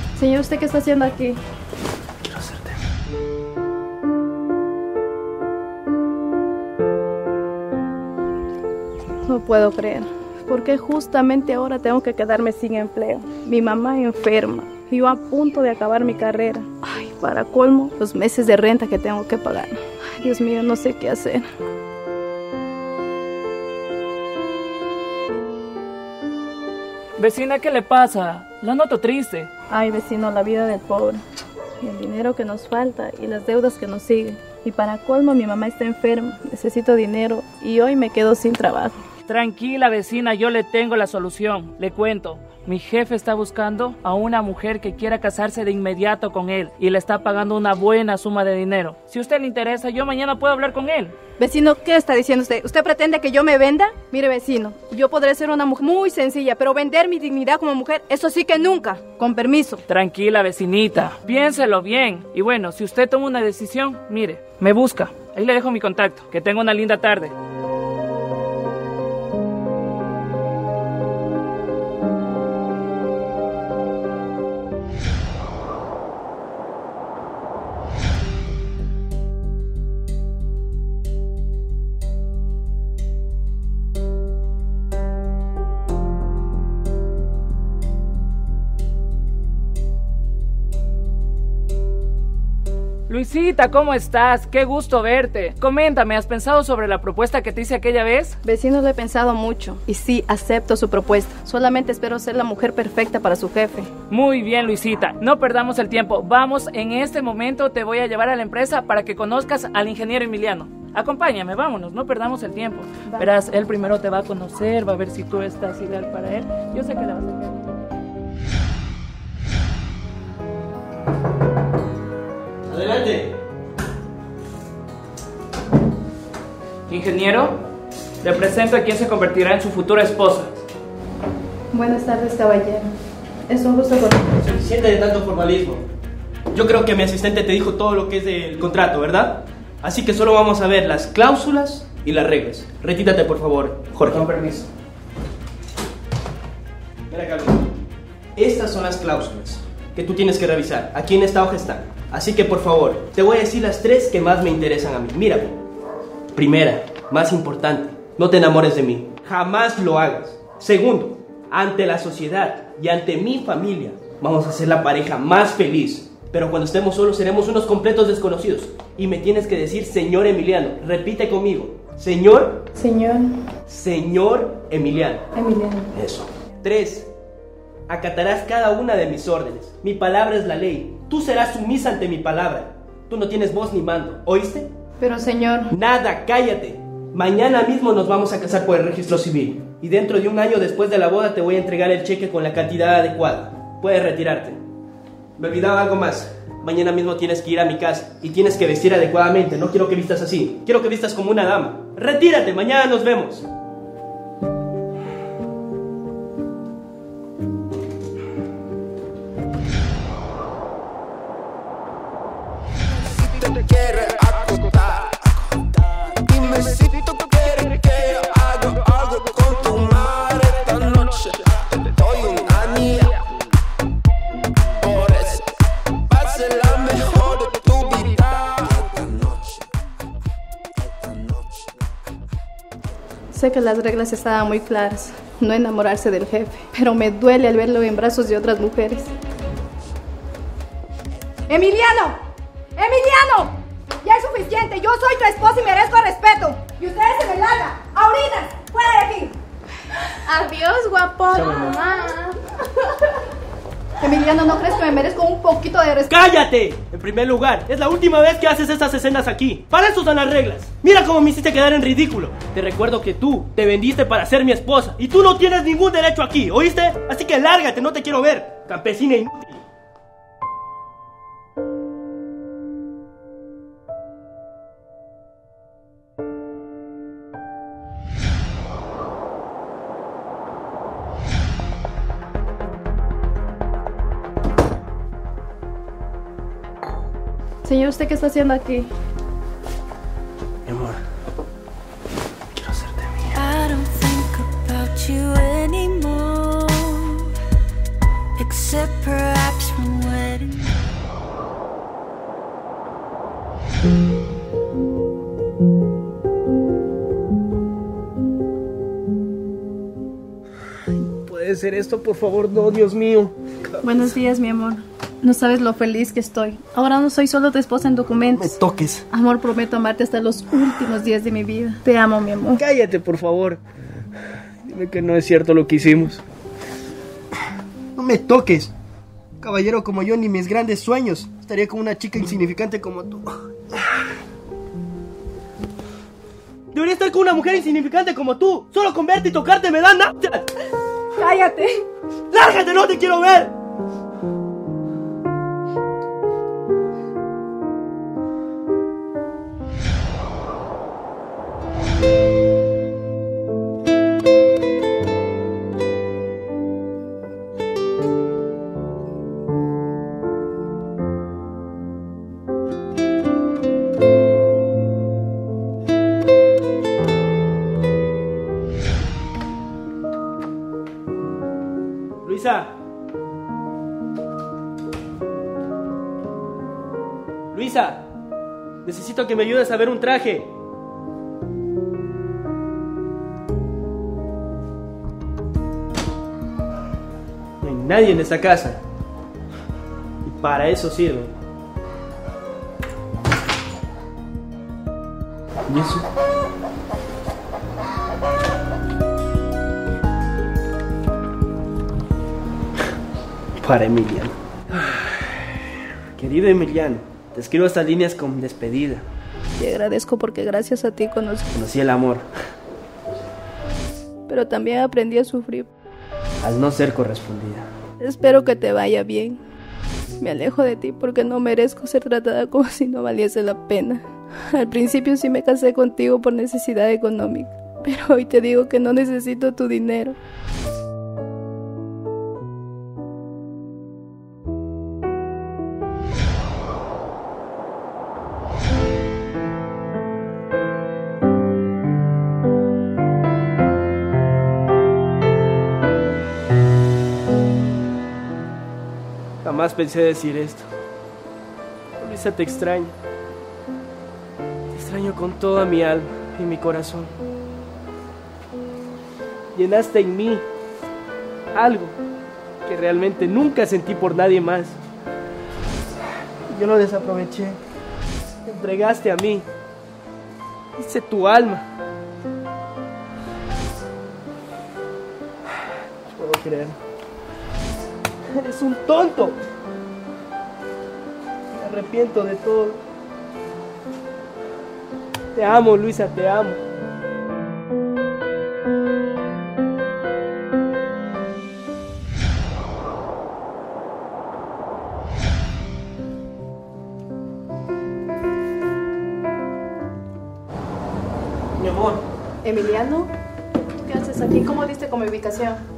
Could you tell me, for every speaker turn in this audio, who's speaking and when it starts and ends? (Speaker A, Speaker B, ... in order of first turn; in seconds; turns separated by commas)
Speaker A: 0.2-1.4, Speaker B: 2.2-2.8, Speaker A: 9.3-21.4, Speaker C: 27.2-29.5, Speaker A: 29.7-31.2, Speaker A: 31.8-39.0, Speaker C: 39.3-51.1, Speaker A: 51.4-59.8, Speaker C: 59.9-67.3, Speaker C: 93.1-98.4, Speaker A: 98.4-103.9, Speaker C: 104.1-117.7, Speaker B: 122.7-123.3, Speaker C: 126.9-127.6, Speaker C: 128.2-130.5, Speaker A: 131.7-132.9, Speaker A: 133.5-134.2, Speaker B: 134.3-135.9, Speaker B: 136.5-144.7, Speaker B: 147.1-147.7, Speaker B: 148.4-155.6, Speaker B: 156.3-172.7, Speaker A: 172.8-173.3, Speaker B: 173.7-175.3, Speaker A: 175.3-175.9, Speaker B: 175.9-177.1, Speaker B: 177.9-184.7, Speaker A: 185.0-185.7, Speaker B: 185.7-194.6, Speaker B: 195.4-203.5, Speaker B: 219.5-220.8, Speaker B: 222.2-222.9, Speaker D: 226.4-228.1, Speaker A: 233.3-239.1, Speaker A: 241.5-242.2, Speaker A: 242.8-249.3, Speaker A: 250.3-252.4, Speaker B: 251.3-251.8, Speaker A: 254.0-256.1, Speaker B: 256.1-269.6, Speaker A: 287.6-288.9, Speaker B: 290.7-291.0, Speaker B: 292.5-293.4, Speaker D: 293.3-297.3, Speaker D: 298.4-300.7, Speaker B: 311.0-314.1, Speaker A: 313.8-318.6, Speaker B: 318.4-319.1, Speaker A: 319.1-322.6, Speaker B: 322.6-323.6, Speaker B: 324.6-326.2, Speaker B: 327.9-328.7, Speaker B: 329.4-333.3, Speaker B: 336.7-340.5, Speaker A: 341.2-341.8, Speaker B: 342.3-343.5, Speaker B: 372.2-372.7, Speaker B: 377.5-378.1, Speaker B: 378.8-380.5, Speaker B: 387.6-388.8, Speaker B: 390.2-391.3, Speaker B: 395.7-396.1, Speaker B: 403.6-405.2, Speaker B: 406.2-409.1, Speaker A: 409.6-411.5, Speaker B: 411.5-412.3, Speaker A: 414.3-415.7, Speaker B: 416.4-417.7, Speaker A: 418.0-419.4, Speaker A: 420.2-430.2, Speaker B: 449.4-450.7, Speaker B: 452.0-452.9, Speaker B: 454.7-457.1, Speaker B: 459.5-460.4, Speaker B: 461.5-462.0, Speaker B: 462.7-464.8, Speaker B: 466.5-467.6, Speaker B: 468.5-469.5, Speaker B: 470.8-471.6, Speaker B: 476.1-476.8, Speaker B: 478.3-479.4, Speaker B: 481.5-482.8, Speaker B: 485.4-486.6, Speaker B: 501.6-502.0, Speaker A: 502.4-505.6